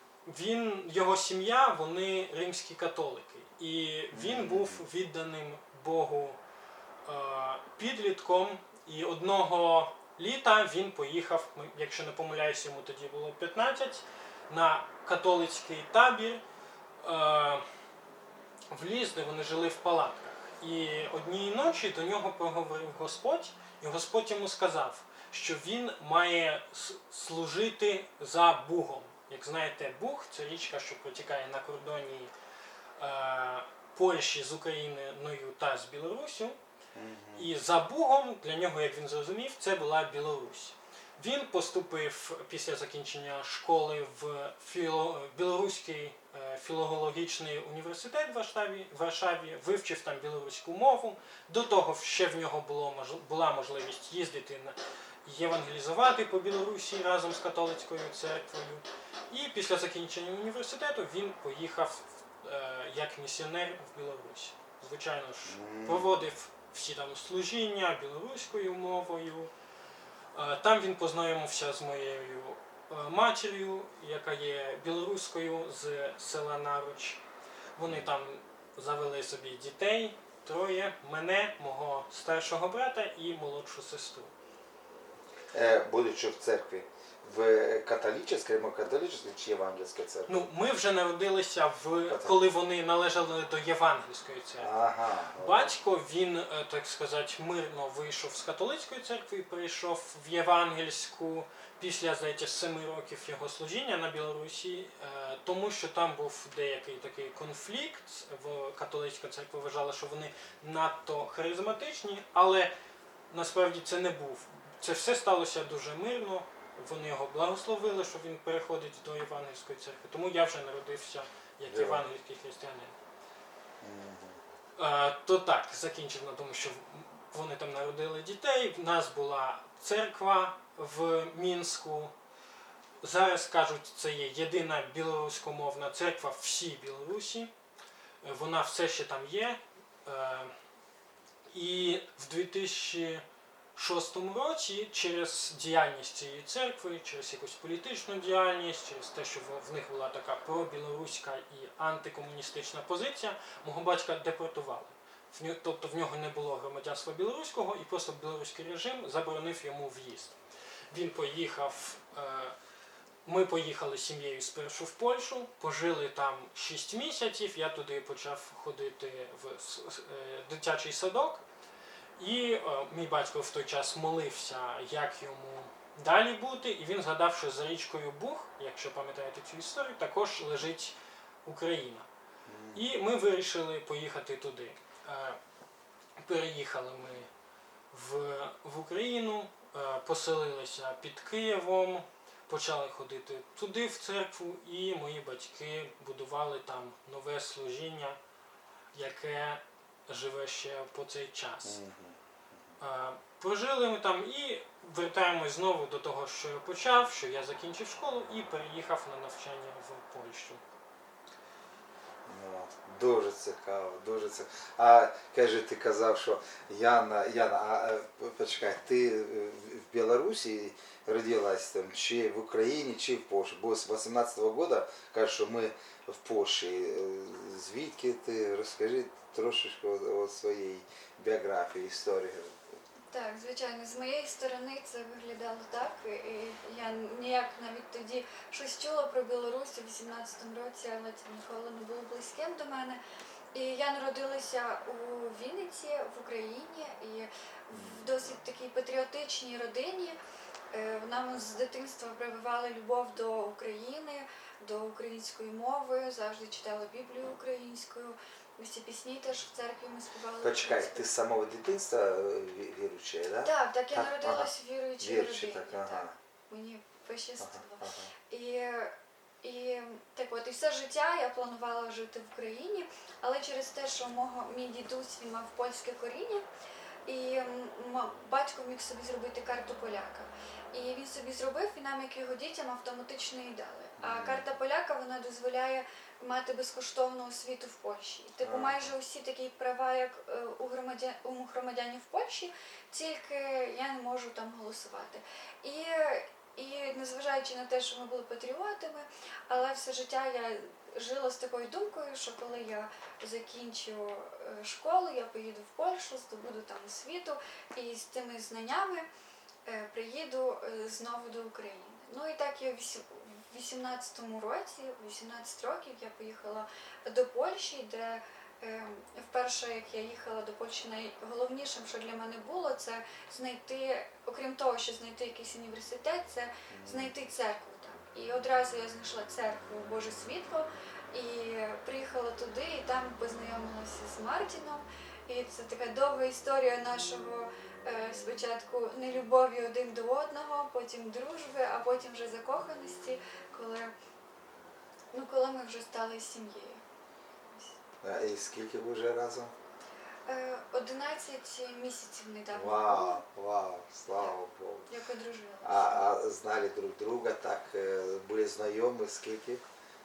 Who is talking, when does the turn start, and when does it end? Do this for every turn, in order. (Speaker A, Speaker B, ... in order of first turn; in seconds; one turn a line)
Speaker A: 0.3-6.4
Speaker B: 4.1-4.9
Speaker A: 7.0-16.4
Speaker A: 17.0-17.6
Speaker A: 18.7-32.3
Speaker A: 33.0-36.6
Speaker B: 37.0-37.5
Speaker A: 37.4-69.5
Speaker B: 65.5-66.2
Speaker A: 70.3-77.2
Speaker A: 77.8-84.3
Speaker B: 85.5-90.5
Speaker A: 90.3-94.8
Speaker B: 92.1-92.4
Speaker B: 94.6-95.8
Speaker A: 95.4-112.7
Speaker A: 113.3-123.0
Speaker B: 121.7-122.0
Speaker B: 123.8-124.4
Speaker A: 124.8-132.1
Speaker A: 133.0-137.5
Speaker A: 138.2-140.6
Speaker A: 141.5-143.2
Speaker A: 143.8-160.3
Speaker A: 160.9-162.6
Speaker A: 163.2-171.4
Speaker A: 172.2-182.1
Speaker B: 182.5-182.9
Speaker A: 182.7-185.4
Speaker A: 186.2-187.3
Speaker A: 187.9-198.2
Speaker A: 198.9-201.8
Speaker B: 201.6-202.2
Speaker A: 202.8-210.6
Speaker B: 212.3-232.6
Speaker C: 233.1-243.0
Speaker C: 243.5-250.2
Speaker B: 247.7-248.4
Speaker C: 250.7-261.1
Speaker B: 260.4-264.5
Speaker C: 263.4-276.4
Speaker B: 265.0-266.1
Speaker B: 267.4-268.1
Speaker C: 277.1-309.1
Speaker B: 284.0-284.5
Speaker B: 288.4-288.9
Speaker C: 309.7-343.9
Speaker B: 326.7-327.1
Speaker C: 345.1-346.8
Speaker C: 347.5-347.8
Speaker B: 348.0-349.5
Speaker C: 350.3-353.2
Speaker B: 352.5-354.9
Speaker C: 354.9-356.1
Speaker B: 355.6-359.6